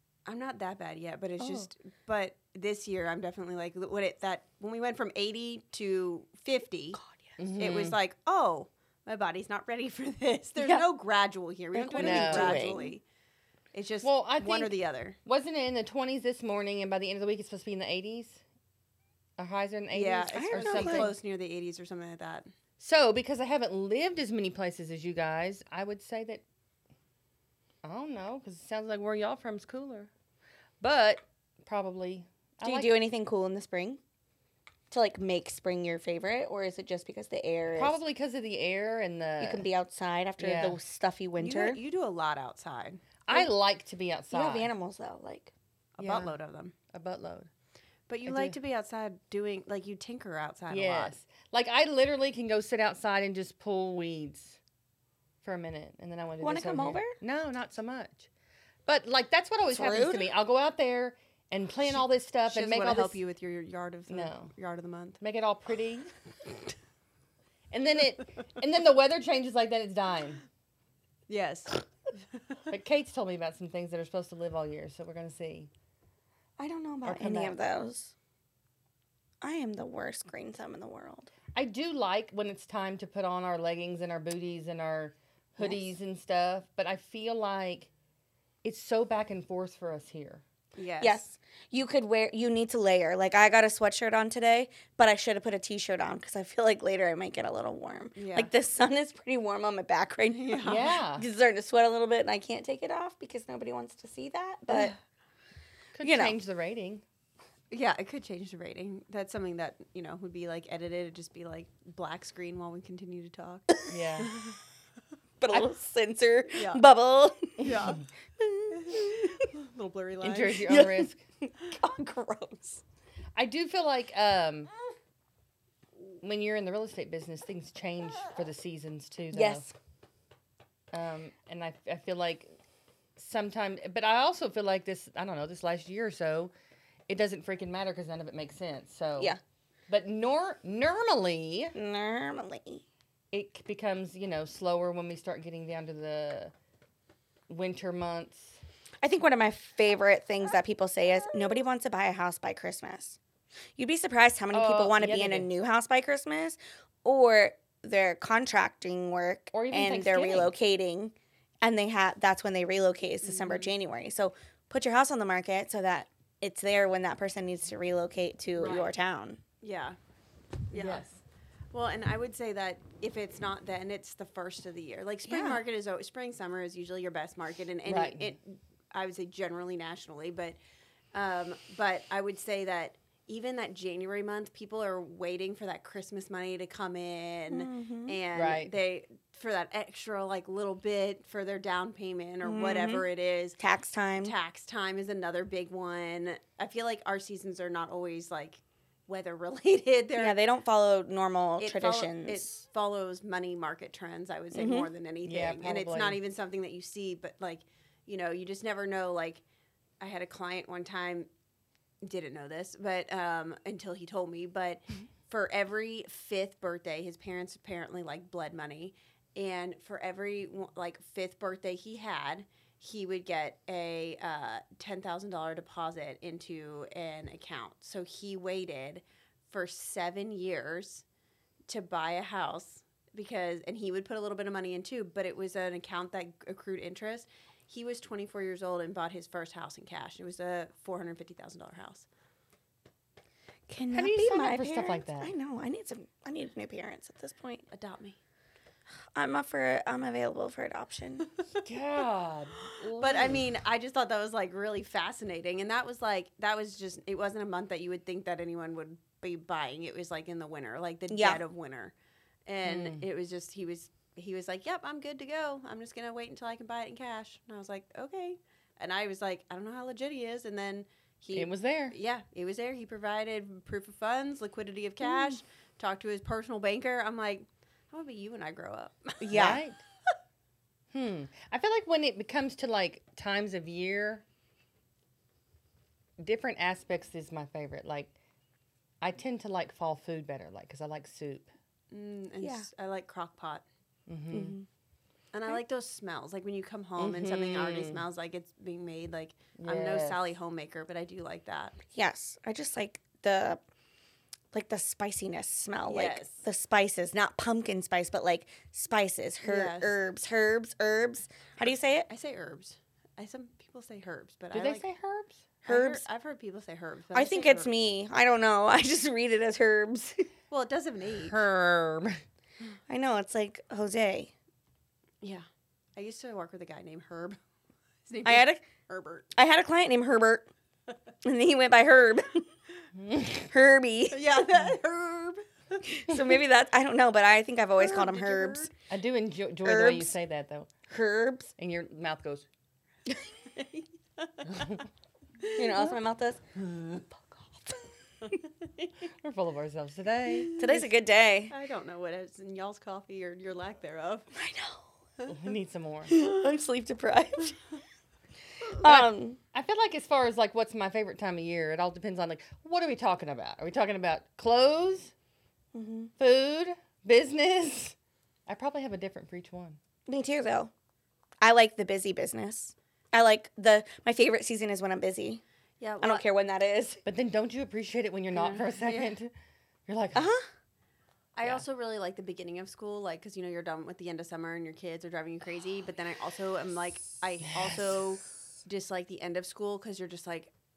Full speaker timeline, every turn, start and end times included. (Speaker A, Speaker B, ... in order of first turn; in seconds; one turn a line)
Speaker A: 0.2-7.0
Speaker B: 1.4-1.7
Speaker B: 6.9-7.3
Speaker C: 7.4-8.0
Speaker A: 7.6-13.0
Speaker B: 10.6-10.8
Speaker B: 11.7-13.0
Speaker C: 12.0-12.6
Speaker A: 13.7-15.2
Speaker C: 14.0-14.7
Speaker C: 15.2-18.4
Speaker C: 19.4-21.1
Speaker A: 19.9-22.5
Speaker B: 20.3-21.1
Speaker C: 22.8-26.4
Speaker C: 27.8-30.1
Speaker C: 30.8-33.0
Speaker B: 32.6-34.0
Speaker B: 34.9-38.0
Speaker C: 37.8-39.7
Speaker B: 39.4-41.8
Speaker C: 40.4-40.8
Speaker A: 41.4-43.1
Speaker C: 43.2-44.7
Speaker B: 44.3-45.5
Speaker A: 46.0-46.8
Speaker C: 46.0-46.4
Speaker C: 46.9-47.5
Speaker A: 48.1-51.1
Speaker C: 48.2-48.5
Speaker C: 50.7-54.6
Speaker C: 55.4-58.3
Speaker B: 56.4-57.1
Speaker C: 58.9-63.2
Speaker B: 59.7-60.3
Speaker A: 62.5-65.2
Speaker C: 64.1-64.5
Speaker C: 65.2-66.1
Speaker C: 67.7-70.4
Speaker A: 71.3-71.8
Speaker C: 72.7-75.7
Speaker B: 76.6-78.1
Speaker C: 77.0-77.5
Speaker B: 79.4-81.3
Speaker C: 81.5-87.9
Speaker C: 88.6-90.4
Speaker A: 90.8-91.2
Speaker B: 91.0-104.9
Speaker A: 98.2-98.5
Speaker A: 100.3-100.9
Speaker C: 100.6-101.2
Speaker A: 104.7-104.9
Speaker C: 105.9-107.0
Speaker B: 106.0-106.4
Speaker A: 107.7-114.5
Speaker C: 113.9-114.3
Speaker B: 115.4-117.7
Speaker A: 116.5-116.8
Speaker A: 117.6-118.0
Speaker B: 118.4-119.5
Speaker A: 118.7-120.7
Speaker C: 120.2-121.2
Speaker B: 120.7-122.8
Speaker C: 123.3-124.7
Speaker C: 126.2-129.7
Speaker B: 129.3-129.7
Speaker C: 130.9-132.5
Speaker C: 133.2-136.5
Speaker C: 137.1-139.3
Speaker C: 139.9-141.8
Speaker B: 141.7-142.8
Speaker C: 143.3-146.5
Speaker C: 147.5-148.6
Speaker B: 149.0-153.2
Speaker B: 153.8-169.4
Speaker C: 154.5-155.5
Speaker C: 159.5-160.5
Speaker A: 163.2-163.7
Speaker A: 168.6-168.9
Speaker A: 169.6-170.0
Speaker A: 170.7-171.1
Speaker C: 170.7-171.2
Speaker A: 171.7-180.6
Speaker B: 175.3-175.6
Speaker C: 177.9-178.4
Speaker A: 181.1-193.6
Speaker B: 187.5-188.2
Speaker C: 188.3-188.7
Speaker B: 192.4-193.0
Speaker B: 193.6-194.3
Speaker A: 194.2-200.4
Speaker B: 200.2-202.5
Speaker A: 201.6-209.4
Speaker B: 204.5-204.9
Speaker C: 205.2-206.2
Speaker A: 210.0-211.3
Speaker A: 212.0-231.0
Speaker A: 231.7-242.1
Speaker B: 243.7-247.6
Speaker C: 243.9-245.3
Speaker A: 247.7-248.2
Speaker B: 249.1-251.3
Speaker C: 251.6-253.4
Speaker A: 253.0-261.9
Speaker B: 261.1-261.4
Speaker A: 262.5-279.5
Speaker C: 262.6-263.0
Speaker C: 271.3-272.0
Speaker B: 275.0-275.4
Speaker B: 279.2-279.6
Speaker C: 279.3-279.8
Speaker C: 280.9-284.2
Speaker C: 286.2-288.1
Speaker C: 289.0-291.5
Speaker A: 291.9-293.6
Speaker B: 292.4-292.7
Speaker C: 294.1-294.6
Speaker B: 294.3-294.7
Speaker A: 295.3-301.8
Speaker C: 297.0-298.0
Speaker C: 299.6-300.2
Speaker B: 301.9-303.6
Speaker B: 304.5-312.1
Speaker A: 305.9-306.4
Speaker A: 309.4-310.0
Speaker A: 312.1-314.9
Speaker C: 314.5-315.5
Speaker A: 315.6-317.7
Speaker B: 315.7-316.0
Speaker B: 317.1-320.3
Speaker A: 320.5-321.4
Speaker C: 321.2-322.2
Speaker B: 322.9-324.3
Speaker A: 325.2-327.4
Speaker A: 328.1-329.3
Speaker B: 328.2-328.6
Speaker B: 329.3-330.5
Speaker B: 331.2-332.5
Speaker C: 333.0-333.5
Speaker B: 333.5-334.4
Speaker A: 334.1-336.0
Speaker B: 336.0-338.7
Speaker A: 337.8-338.7
Speaker C: 338.9-340.8
Speaker B: 339.6-340.1
Speaker B: 340.9-341.5
Speaker C: 341.6-342.5
Speaker A: 343.5-344.7
Speaker C: 344.5-344.8
Speaker B: 345.5-347.8
Speaker A: 348.2-348.9
Speaker C: 349.2-350.5
Speaker A: 350.3-350.9
Speaker B: 350.6-351.5
Speaker A: 351.5-354.3
Speaker B: 354.3-354.8
Speaker C: 355.2-356.1
Speaker B: 356.1-357.6
Speaker B: 358.7-359.4
Speaker C: 358.8-365.1
Speaker B: 365.7-366.1
Speaker C: 366.2-368.0
Speaker C: 368.5-369.8
Speaker B: 370.1-370.7
Speaker B: 371.4-375.4
Speaker A: 375.8-376.2
Speaker B: 376.0-377.0
Speaker C: 377.0-379.3
Speaker A: 378.3-379.1
Speaker C: 379.9-380.3
Speaker B: 380.1-380.5
Speaker A: 381.4-390.5
Speaker C: 387.4-387.9